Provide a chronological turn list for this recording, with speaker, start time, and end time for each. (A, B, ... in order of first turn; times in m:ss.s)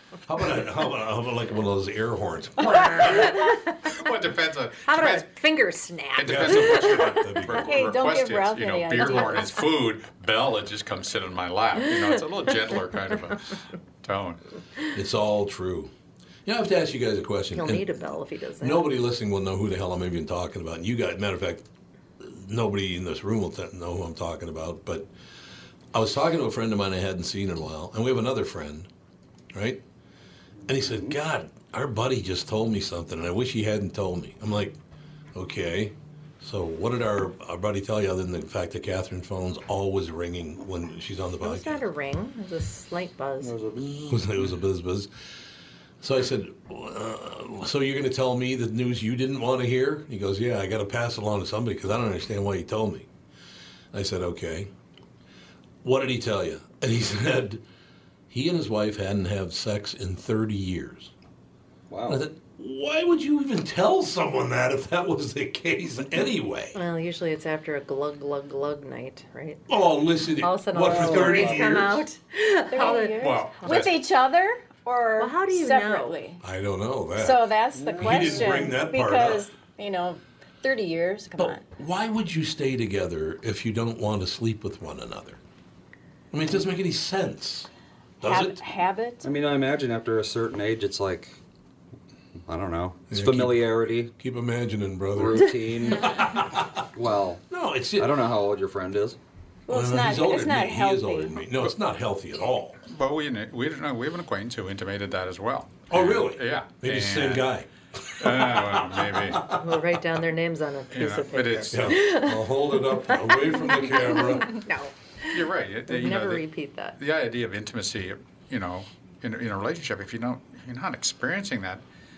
0:00.3-0:03.4 A
0:02.6-0:03.9 B
0:03.8-0:05.3 C
0:04.8-0:07.3 B
0:06.2-0:14.4 C
0:06.2-0:07.8 A
0:07.5-0:09.7 D
0:14.9-0:15.9 A
0:16.5-0:18.0 A
0:17.6-0:18.9 B
0:18.6-0:21.7 A
0:22.2-0:25.1 A
0:25.9-0:28.9 A
0:29.5-0:29.8 A
0:30.7-0:34.8 A
0:30.8-0:31.1 E
0:35.3-0:41.9 A
0:41.4-0:43.5 B
0:43.4-0:44.2 E
0:44.1-0:45.1 A
0:46.0-0:53.1 A
0:53.9-0:54.7 A
0:55.8-0:57.6 A
0:58.3-1:01.1 A
1:01.9-1:02.2 E
1:02.1-1:06.8 A
1:06.8-1:09.6 B
1:09.7-1:12.1 A
1:10.4-1:13.9 B
1:11.0-1:11.9 E
1:12.7-1:16.4 D
1:13.2-1:14.0 C
1:15.2-1:16.2 B
1:16.4-1:19.5 A
1:17.2-1:21.6 D
1:17.8-1:18.7 E
1:21.4-1:25.4 A
1:26.3-1:27.7 A
1:28.2-1:28.6 A
1:28.2-1:29.3 D
1:29.2-1:31.4 E
1:32.5-1:34.1 E
1:33.1-1:36.8 A
1:35.1-1:37.4 E
1:37.5-1:38.3 A
1:38.0-1:39.2 E
1:39.7-1:41.4 D
1:39.7-1:42.8 A
1:42.9-1:47.5 C
1:45.9-1:49.8 A
1:48.2-1:49.5 C
1:49.4-1:52.5 B
1:50.9-1:51.9 C
1:51.7-1:54.6 A
1:53.1-1:57.0 B
1:55.3-2:01.8 C